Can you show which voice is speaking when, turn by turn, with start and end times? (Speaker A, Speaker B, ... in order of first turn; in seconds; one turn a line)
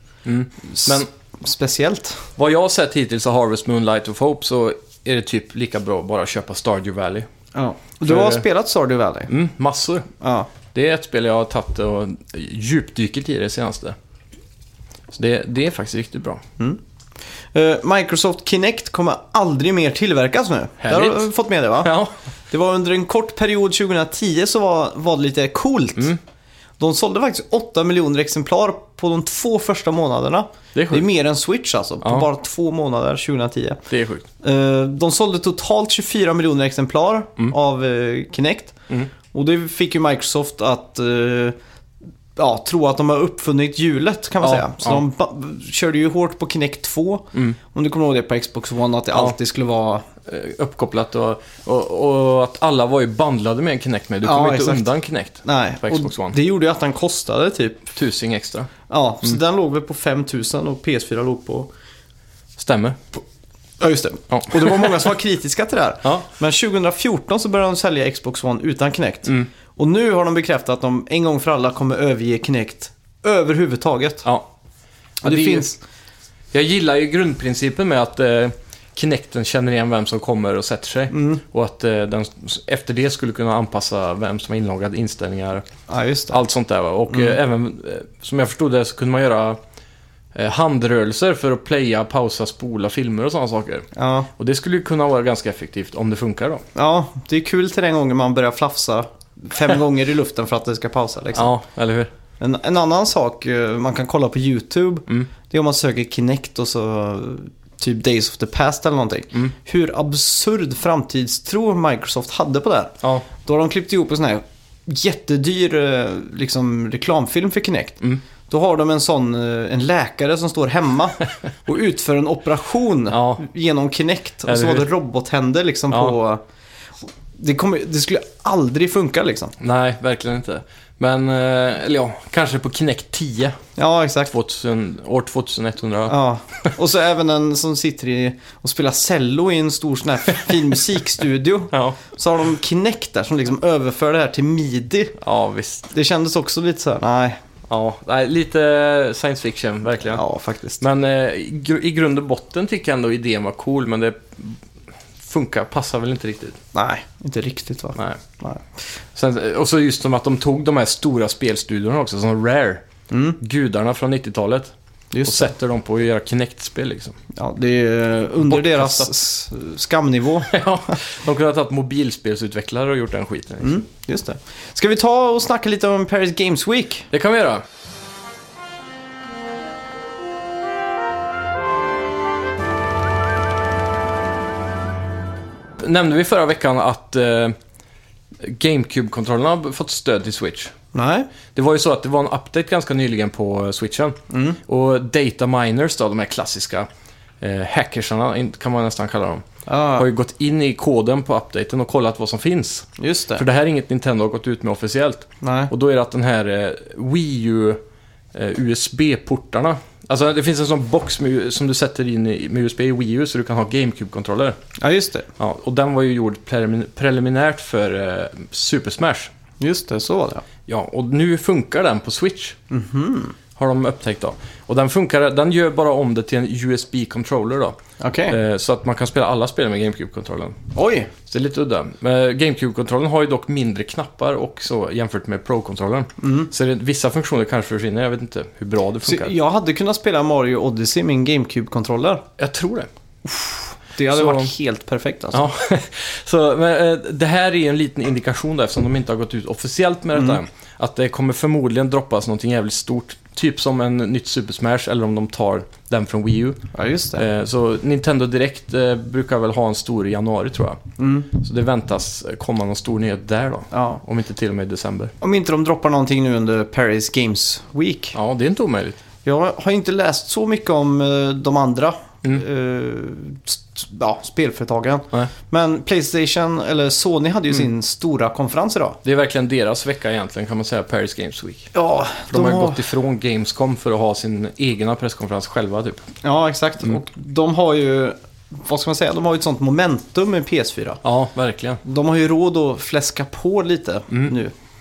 Speaker A: 0.2-1.1
Speaker B: 0.6-2.3
Speaker A: 2.4-7.3
Speaker B: 7.5-9.3
Speaker A: 8.0-8.4
Speaker A: 9.3-10.1
Speaker B: 10.2-10.5
Speaker A: 10.7-14.0
Speaker A: 15.1-16.4
Speaker B: 17.5-21.9
Speaker A: 20.8-22.1
Speaker B: 22.5-26.2
Speaker B: 26.8-33.8
Speaker A: 30.8-31.1
Speaker A: 33.9-34.2
Speaker B: 34.4-38.8
Speaker B: 39.3-41.6
Speaker B: 42.4-50.0
Speaker A: 44.4-45.0
Speaker A: 50.2-56.4
Speaker B: 54.2-54.9
Speaker B: 55.4-57.9
Speaker A: 58.0-58.7
Speaker B: 58.9-61.7
Speaker A: 62.6-63.2
Speaker B: 63.8-74.3
Speaker A: 64.3-65.1
Speaker B: 75.2-75.8
Speaker A: 75.2-75.7
Speaker A: 76.5-85.7
Speaker B: 81.1-81.4
Speaker B: 85.9-86.4
Speaker A: 86.3-89.6
Speaker B: 87.1-87.4
Speaker A: 90.3-96.6
Speaker B: 94.0-94.3
Speaker B: 96.8-101.5
Speaker A: 101.3-102.1
Speaker B: 102.4-126.4
Speaker A: 123.1-123.4
Speaker A: 124.5-124.9
Speaker A: 125.9-126.2
Speaker B: 127.4-129.5
Speaker A: 129.6-133.6
Speaker B: 133.8-134.3
Speaker A: 134.3-136.2
Speaker B: 136.1-145.2
Speaker A: 141.7-142.0
Speaker A: 145.2-145.9
Speaker B: 145.9-147.4
Speaker A: 147.7-150.2
Speaker B: 150.1-150.8
Speaker A: 150.8-154.6
Speaker A: 155.2-156.6
Speaker B: 156.7-158.6
Speaker A: 158.0-158.2
Speaker A: 159.1-162.8
Speaker B: 163.1-163.4
Speaker A: 163.4-164.7
Speaker B: 165.1-165.5
Speaker A: 165.2-167.2
Speaker B: 167.3-171.0
Speaker A: 168.4-169.1
Speaker A: 170.4-173.8
Speaker B: 173.6-177.1
Speaker A: 177.1-177.6
Speaker A: 185.8-187.6
Speaker A: 188.4-190.7
Speaker B: 190.9-191.3
Speaker A: 191.5-196.9
Speaker B: 194.3-194.6
Speaker A: 197.4-199.4
Speaker B: 199.7-200.1
Speaker A: 200.0-207.8
Speaker B: 203.0-203.4
Speaker B: 205.4-205.7
Speaker A: 208.3-214.6
Speaker B: 214.8-215.3
Speaker A: 215.4-219.3
Speaker B: 219.6-220.4
Speaker A: 220.7-222.6
Speaker B: 222.7-223.4
Speaker A: 223.6-227.8
Speaker B: 228.0-228.4
Speaker A: 228.3-230.6
Speaker B: 230.8-231.1
Speaker A: 231.2-239.3
Speaker B: 236.2-236.5
Speaker B: 239.0-242.2
Speaker A: 242.4-242.9
Speaker B: 243.3-245.4
Speaker A: 244.1-244.5
Speaker A: 245.3-256.6
Speaker B: 250.1-250.4
Speaker B: 256.7-257.2
Speaker A: 257.1-260.8
Speaker B: 261.0-261.3
Speaker A: 261.3-265.1
Speaker B: 263.7-264.0
Speaker B: 265.2-268.1
Speaker A: 268.1-269.0
Speaker B: 269.2-279.0
Speaker A: 279.0-281.7
Speaker B: 281.7-282.8
Speaker A: 282.3-286.1
Speaker B: 286.2-291.0
Speaker A: 291.0-291.8
Speaker B: 291.8-294.5